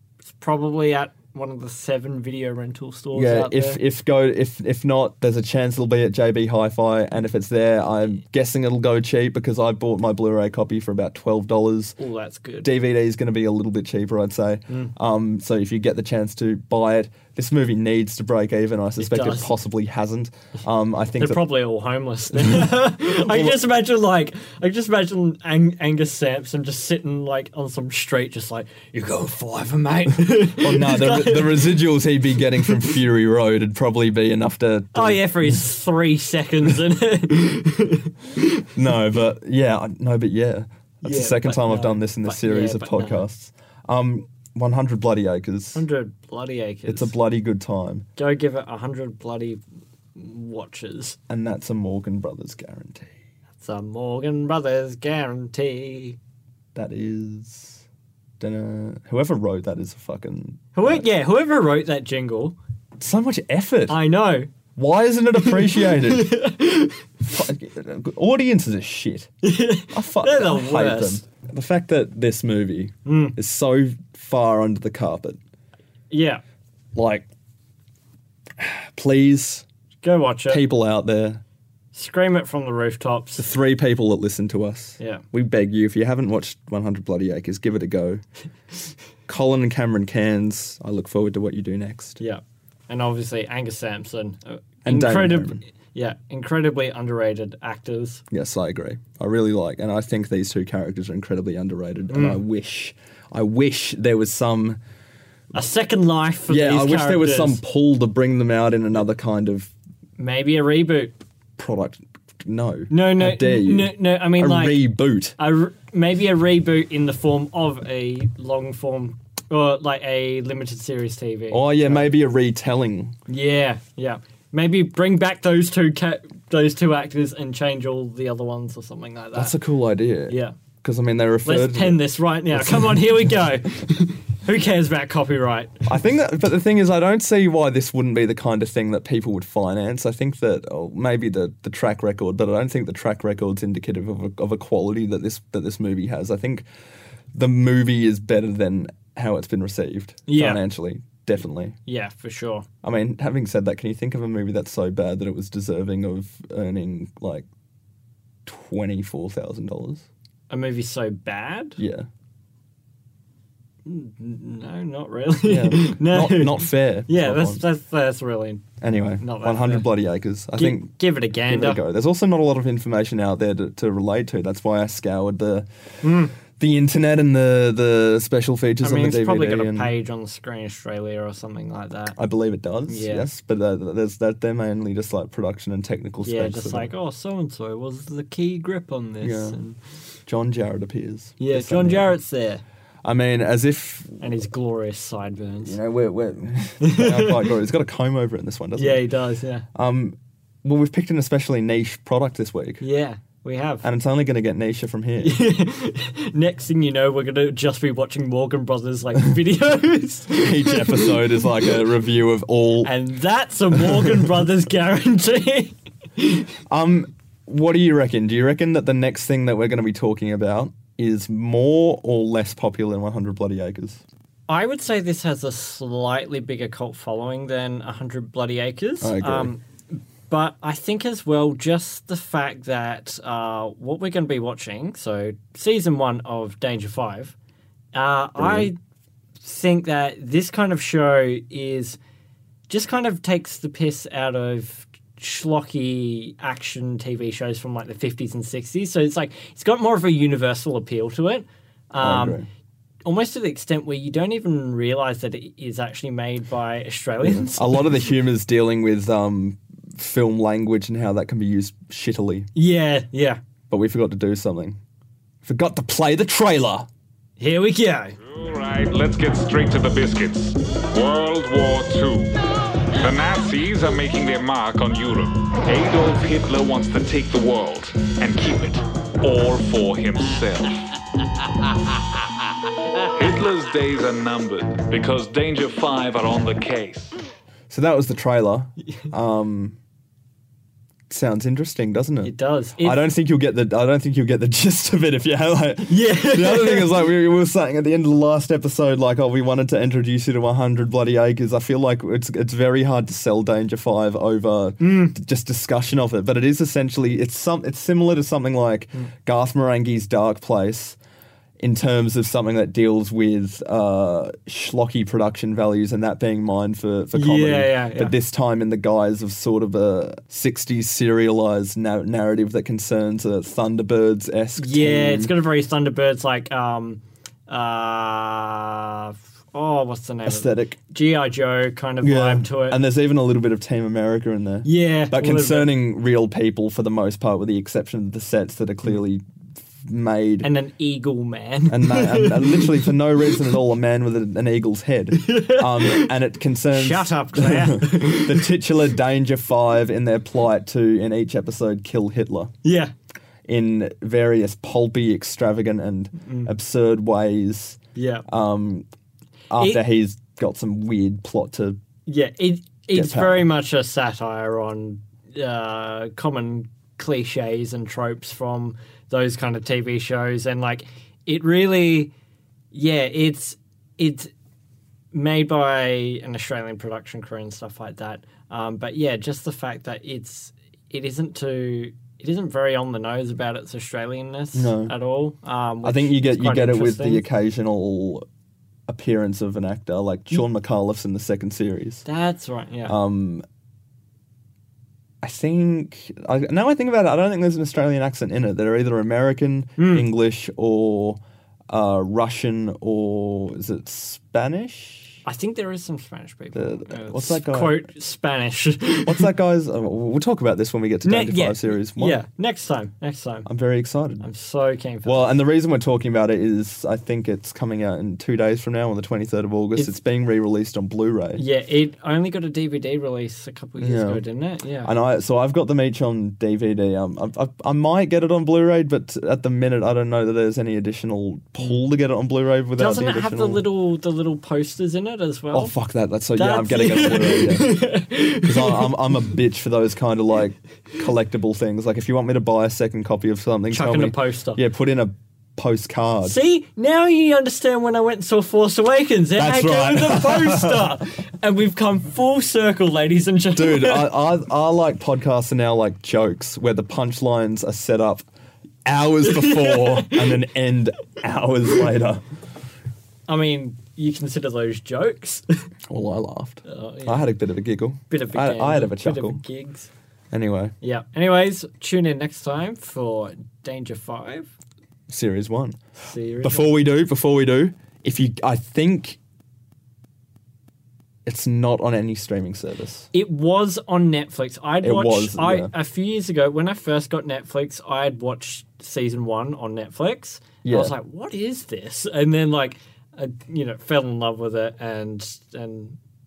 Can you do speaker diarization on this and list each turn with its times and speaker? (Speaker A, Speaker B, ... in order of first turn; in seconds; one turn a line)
Speaker A: 0.2-3.8
Speaker B: 3.1-12.0
Speaker A: 12.0-12.7
Speaker B: 12.6-21.4
Speaker A: 19.0-19.5
Speaker A: 21.2-31.8
Speaker B: 22.3-23.6
Speaker B: 30.3-35.5
Speaker A: 32.6-32.9
Speaker A: 34.9-38.6
Speaker B: 38.7-45.8
Speaker A: 41.0-43.3
Speaker A: 45.7-47.1
Speaker B: 46.9-48.0
Speaker A: 48.2-49.6
Speaker A: 50.1-51.2
Speaker B: 51.3-53.1
Speaker A: 53.6-56.2
Speaker B: 56.7-57.8
Speaker B: 58.4-61.0
Speaker A: 60.7-62.6
Speaker B: 63.0-64.0
Speaker A: 63.9-64.5
Speaker B: 64.7-66.4
Speaker A: 65.3-67.0
Speaker B: 67.2-69.3
Speaker A: 69.4-71.2
Speaker B: 69.9-75.4
Speaker A: 73.0-73.4
Speaker A: 76.1-76.4
Speaker B: 76.9-77.3
Speaker B: 78.6-79.6
Speaker A: 80.0-80.6
Speaker B: 80.5-81.4
Speaker A: 81.9-83.4
Speaker B: 83.4-88.2
Speaker B: 89.3-92.2
Speaker A: 92.2-98.2
Speaker B: 94.8-95.6
Speaker B: 98.3-104.8
Speaker A: 102.1-102.4
Speaker A: 105.5-107.6
Speaker B: 106.5-109.7
Speaker A: 110.2-111.2
Speaker B: 111.6-115.3
Speaker A: 112.9-114.8
Speaker A: 115.4-122.1
Speaker B: 121.5-123.2
Speaker A: 123.3-129.5
Speaker B: 129.3-133.3
Speaker A: 130.3-130.6
Speaker A: 131.4-135.9
Speaker B: 135.9-146.7
Speaker B: 147.3-151.8
Speaker A: 150.3-150.6
Speaker A: 151.8-152.7
Speaker B: 152.8-157.5
Speaker B: 158.4-160.1
Speaker A: 160.5-161.8
Speaker B: 161.8-162.1
Speaker A: 163.8-168.7
Speaker B: 165.4-167.6
Speaker B: 168.8-175.7
Speaker A: 169.2-169.9
Speaker A: 170.6-171.8
Speaker A: 176.0-176.3
Speaker B: 176.4-179.9
Speaker A: 178.8-182.2
Speaker B: 182.1-186.9
Speaker A: 182.9-183.3
Speaker A: 186.2-189.8
Speaker B: 189.2-189.6
Speaker B: 190.2-192.2
Speaker A: 191.4-192.6
Speaker B: 193.0-194.2
Speaker A: 194.2-195.8
Speaker B: 195.6-199.0
Speaker A: 196.8-197.5
Speaker A: 198.8-199.7
Speaker B: 199.7-202.8
Speaker A: 202.8-203.8
Speaker B: 203.8-205.4
Speaker A: 205.2-211.8
Speaker B: 210.4-212.9
Speaker A: 212.8-216.5
Speaker B: 216.7-224.0
Speaker A: 224.5-237.3
Speaker B: 229.0-229.5
Speaker A: 237.9-238.8
Speaker B: 238.4-238.7
Speaker A: 239.4-242.0
Speaker A: 242.7-252.4
Speaker B: 252.0-252.5
Speaker A: 253.0-258.0
Speaker B: 257.2-262.5
Speaker A: 262.5-263.4
Speaker B: 263.7-264.8
Speaker B: 265.4-266.9
Speaker A: 267.4-268.2
Speaker C: 268.2-272.4
Speaker C: 272.9-280.9
Speaker C: 283.1-287.1
Speaker B: 287.7-289.8
Speaker B: 291.1-311.0
Speaker A: 292.2-293.1
Speaker A: 295.9-296.9
Speaker A: 304.8-305.1
Speaker B: 311.6-325.3
Speaker A: 317.1-318.1
Speaker A: 324.6-332.8
Speaker B: 330.2-330.8
Speaker B: 332.0-339.2
Speaker A: 334.6-335.7
Speaker B: 339.8-340.5
Speaker A: 340.4-343.4
Speaker B: 341.7-352.5
Speaker A: 345.1-346.1
Speaker A: 346.7-348.5
Speaker A: 352.6-352.9
Speaker B: 353.4-358.9
Speaker A: 356.2-356.5
Speaker A: 357.9-358.2
Speaker B: 359.5-361.8
Speaker A: 359.6-359.8
Speaker A: 362.1-372.1
Speaker B: 362.9-363.5
Speaker A: 372.7-374.3
Speaker A: 375.1-387.2
Speaker B: 384.5-384.9
Speaker B: 385.8-388.2
Speaker B: 388.9-392.0
Speaker A: 392.1-393.0
Speaker B: 392.9-393.4
Speaker B: 395.2-401.2
Speaker A: 399.8-400.1
Speaker B: 401.7-405.2
Speaker A: 405.2-409.3
Speaker B: 406.5-407.9
Speaker B: 409.1-412.2
Speaker A: 411.0-413.5
Speaker B: 413.4-414.2
Speaker A: 414.2-415.3
Speaker B: 415.0-421.4
Speaker A: 421.4-424.9
Speaker B: 423.8-424.2
Speaker B: 424.8-433.6
Speaker A: 432.8-435.7
Speaker B: 435.5-446.4
Speaker A: 436.4-438.9
Speaker A: 443.7-444.6
Speaker A: 446.2-454.1
Speaker B: 449.4-450.9
Speaker B: 453.5-458.2
Speaker B: 458.9-462.2
Speaker A: 459.2-460.4
Speaker A: 463.3-465.7
Speaker B: 465.9-469.4
Speaker A: 466.6-467.2
Speaker A: 468.1-469.9
Speaker B: 470.3-470.7
Speaker A: 470.8-474.5
Speaker B: 475.1-475.8
Speaker A: 476.0-476.7
Speaker B: 476.4-479.2
Speaker B: 481.2-483.1
Speaker A: 483.1-496.0
Speaker B: 484.8-485.7
Speaker B: 490.6-490.9